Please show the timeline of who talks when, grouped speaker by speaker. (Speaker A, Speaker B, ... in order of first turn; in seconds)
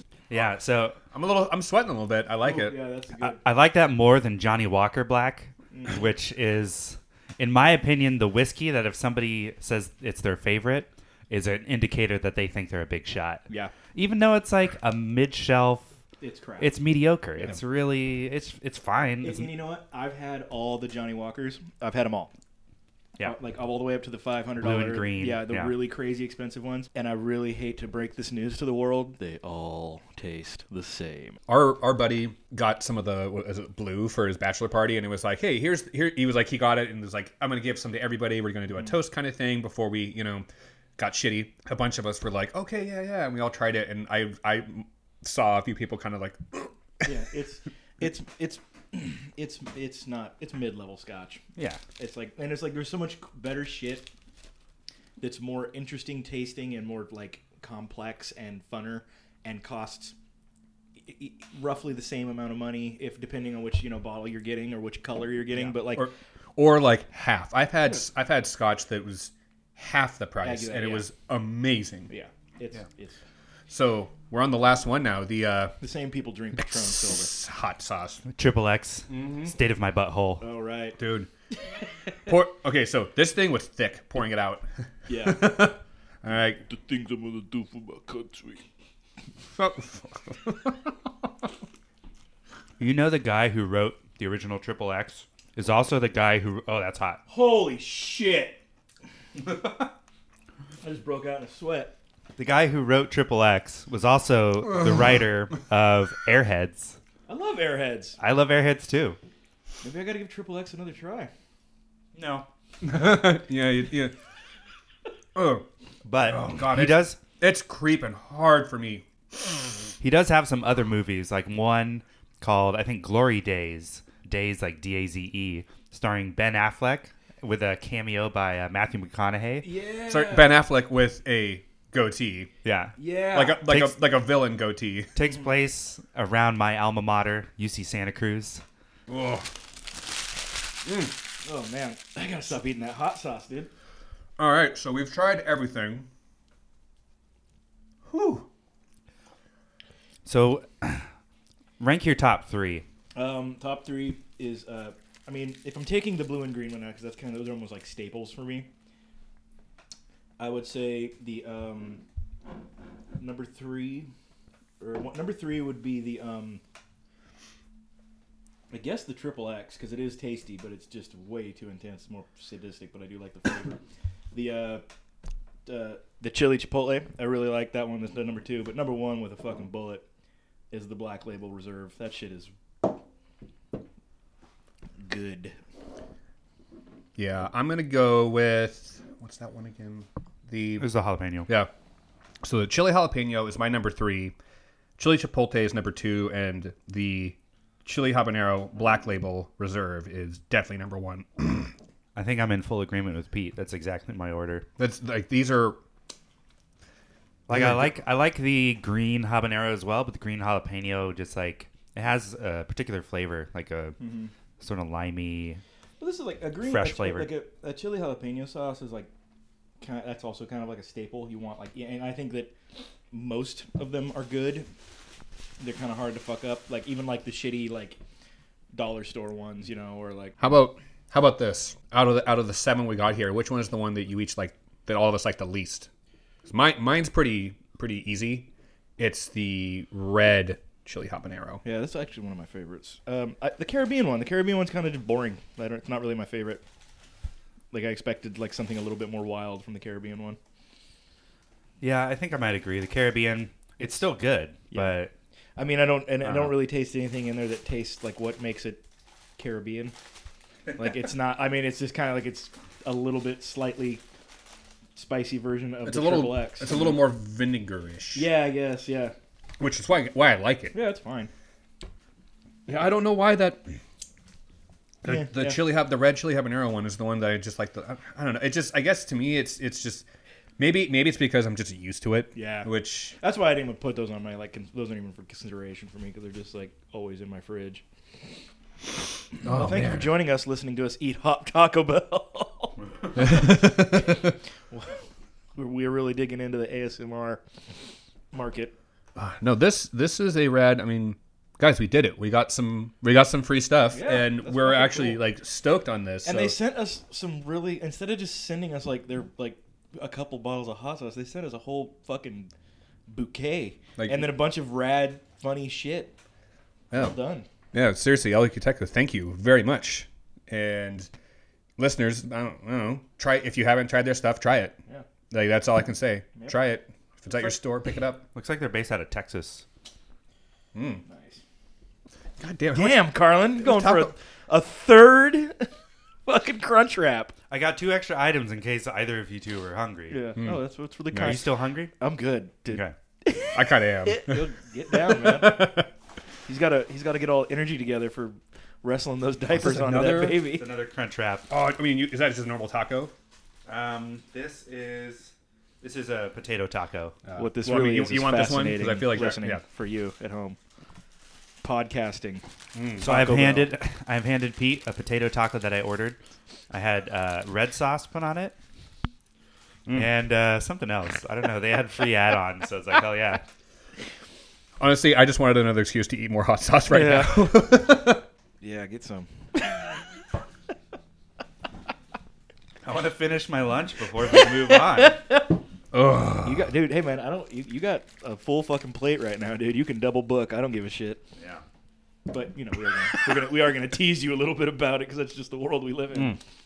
Speaker A: 0.3-1.0, 3.2-15.9, 16.6-19.5, 24.6-25.8, 51.5-51.8, 78.3-80.4, 92.8-97.2, 102.4-107.0, 108.2-109.2, 112.1-112.5, 116.0-117.2, 120.0-129.7, 132.6-133.0, 133.6-133.9, 135.1-138.6, 150.2-151.1, 151.8-152.8, 190.8-191.5, 202.1-204.7, 207.5-214.0, 214.6-215.6, 216.6-217.3, 251.8-255.1, 328.3-329.6, 337.5-340.3, 341.1-341.9, 350.4-351.5, 353.7-357.2, 363.0-366.2, 366.7-368.6, 369.9-373.4, 382.8-385.2, 391.4-391.6
Speaker B: 1.1-2.8, 31.5-40.5, 41.0-47.1, 65.9-72.1, 73.7-75.7, 76.6-78.2, 79.1-79.5, 81.0-81.3, 82.2-86.6, 89.5-91.1, 112.8-114.1, 115.3-115.7, 116.2-119.0, 130.1-132.5, 133.3-135.1, 139.1-139.5, 140.8-141.1, 144.4-146.1, 148.1-148.5, 187.2-190.8, 192.4-194.3, 195.0-201.7, 204.8-205.8, 207.5-207.9, 230.4-235.9, 236.4-241.6, 265.8-268.3, 269.6-270.8, 272.7-273.8, 275.0-280.1, 280.6-283.2, 289.4-290.1, 293.1-294.3, 299.1-306.6, 314.0-314.3, 317.7-321.1, 321.8-324.8, 325.3-328.2, 330.7-331.0, 332.4-334.1, 340.4-341.4, 343.5-345.9, 349.5-350.5, 351.5-353.1, 357.2-359.6, 362.7-363.1, 374.8-378.2, 385.9-386.7, 396.1-396.4
Speaker C: 2.4-3.4, 5.7-6.0, 16.2-16.8, 19.2-22.3, 23.2-31.4, 47.0-51.4, 52.0-54.1, 55.2-60.1, 61.0-66.1, 70.4-71.1, 72.1-73.2, 75.8-77.3, 80.4-81.0, 85.1-85.7, 86.6-88.6, 97.3-98.6, 100.8-101.9, 107.3-108.2, 109.8-111.3, 129.6-130.6, 133.0-133.6, 141.4-143.7, 153.1-158.7, 160.4-162.0, 163.2-164.1, 164.8-166.6, 168.7-173.8, 174.3-174.8, 175.7-180.0, 180.7-182.9, 185.0-185.6, 214.0-214.3, 216.0-219.1, 219.8-222.5, 223.1-224.7, 225.6-228.0, 228.7-230.4, 241.6-246.6, 247.7-250.4, 254.7-255.0, 255.6-258.8, 259.4-259.9, 260.8-264.0, 264.9-267.1, 268.1-269.1, 270.7-271.3, 275.0-275.6, 282.3-287.8, 289.4-295.0, 295.5-297.4, 298.3-298.7, 303.9-305.2, 306.2-312.5, 313.1-316.1, 316.9-317.5, 331.0-331.4, 332.7-335.7, 336.2-337.3, 340.1-345.9, 346.4-350.7, 357.4-360.6, 361.6-362.4, 363.0-363.7, 376.9-377.6, 378.6-380.0, 384.7-385.5, 386.4-391.2, 392.3-396.4